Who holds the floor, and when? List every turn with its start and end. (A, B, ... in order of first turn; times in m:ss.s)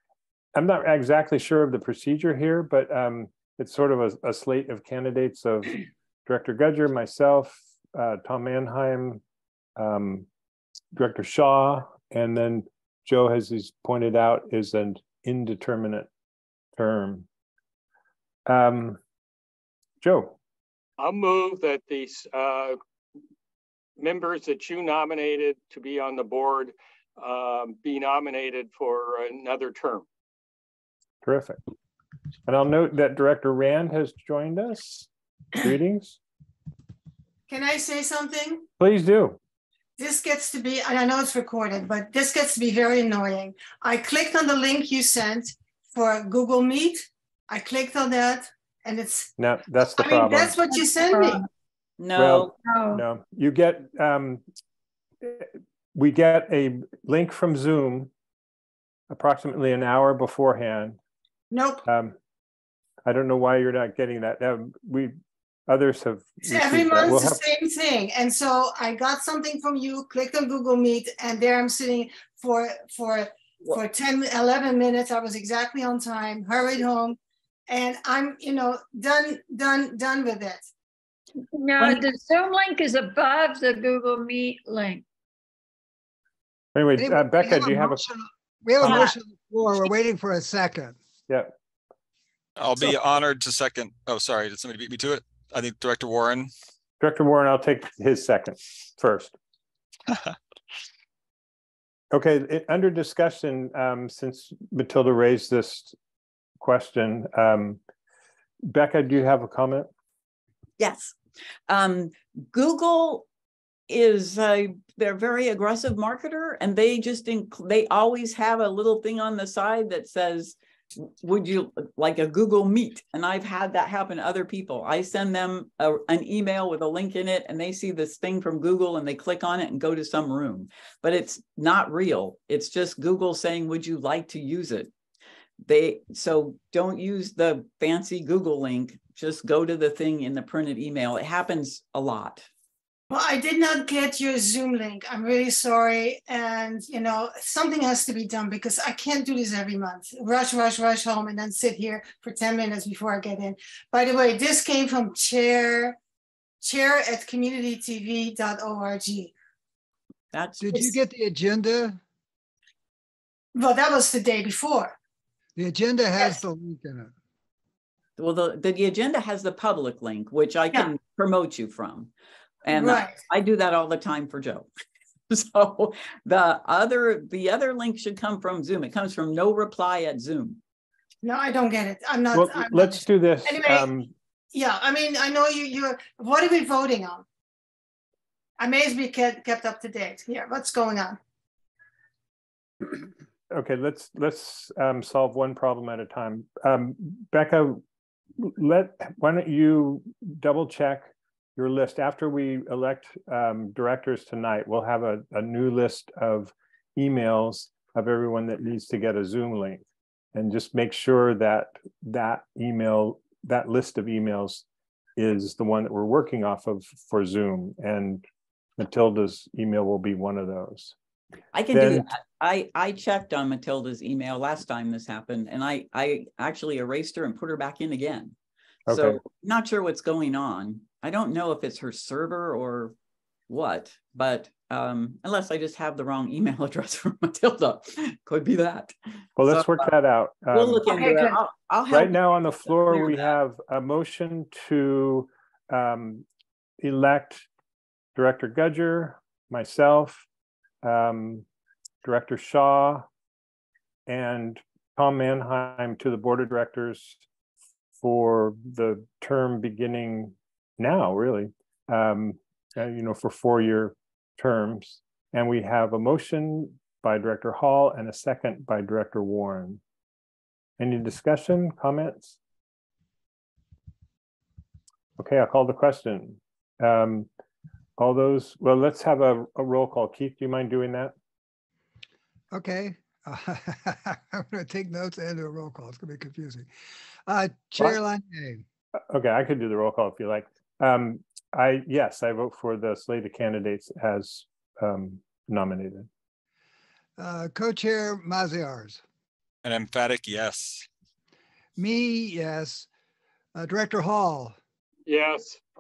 0:00.6-0:09.2 A
0:09.8-0:10.3 A
0:10.9-0:16.1 A
0:16.8-0:17.3 A
0:18.5-0:19.0 A
0:20.0-0:20.4 A
0:21.0-0:22.8 B
0:24.0-0:30.0 B
0:31.2-0:31.6 A
0:32.5-0:35.1 A
0:35.6-0:36.2 A
0:37.5-0:38.7 C
0:38.8-0:39.4 A
0:40.0-0:49.3 C
0:49.4-0:50.6 A
0:49.8-0:51.4 C
0:50.7-0:51.5 D
0:52.0-0:52.5 E
0:52.2-0:54.4 A
0:52.6-0:53.0 D
0:55.2-0:58.1 A
0:59.1-1:01.0 A
1:01.5-1:01.9 C
1:01.9-1:02.2 A
1:03.1-1:05.2 A
1:05.7-1:07.4 A
1:06.5-1:17.2 C
1:17.7-1:20.6 C
1:21.4-1:25.0 D
1:21.8-1:22.0 E
1:26.8-1:28.0 A
1:27.0-1:31.0 F
1:28.8-1:29.1 A
1:28.9-1:29.1 C
1:31.3-1:31.5 A
1:32.6-1:36.5 G
1:37.0-1:39.3 A
1:42.1-1:46.0 A
1:46.6-1:47.8 A
1:48.6-1:49.9 A
1:50.8-1:51.2 E
1:51.7-1:53.3 E
1:53.9-2:14.9 E
2:15.6-2:22.5 E
2:23.1-2:36.0 C
2:36.6-2:39.3 C
2:40.3-2:40.7 E
2:40.6-2:42.0 F
2:43.6-2:45.0 C
2:45.6-2:47.1 F
2:48.2-2:52.1 E
2:52.6-2:54.7 E
2:52.7-2:53.2 C
2:55.3-3:00.6 E
3:01.2-3:03.9 C
3:02.3-3:04.1 A
3:04.5-3:07.2 C
3:08.6-3:11.2 C
3:13.5-3:17.8 A
3:18.4-3:34.7 A
3:35.2-3:38.2 A
3:38.8-3:41.0 A
3:41.5-3:48.4 E
3:41.7-3:42.1 A
3:48.9-3:49.2 A
3:48.9-3:53.0 E
3:53.5-3:58.9 E
3:59.4-4:01.1 A
3:59.4-3:59.9 E
4:00.5-4:03.3 E
4:00.9-4:01.4 C
4:01.9-4:06.2 A
4:06.8-4:07.5 A
4:08.2-4:10.3 A
4:10.8-4:11.5 A
4:12.0-4:13.1 A
4:14.1-4:17.2 A
4:18.0-4:29.8 A
4:30.8-4:32.4 A
4:35.2-4:37.3 A
4:38.0-4:41.1 A
4:42.5-4:46.7 F
4:47.3-4:48.6 F
4:49.1-4:56.1 A
4:57.2-4:59.0 F
4:59.6-5:00.9 G
5:01.8-5:02.9 F
5:03.6-5:04.6 F
5:05.1-5:05.6 B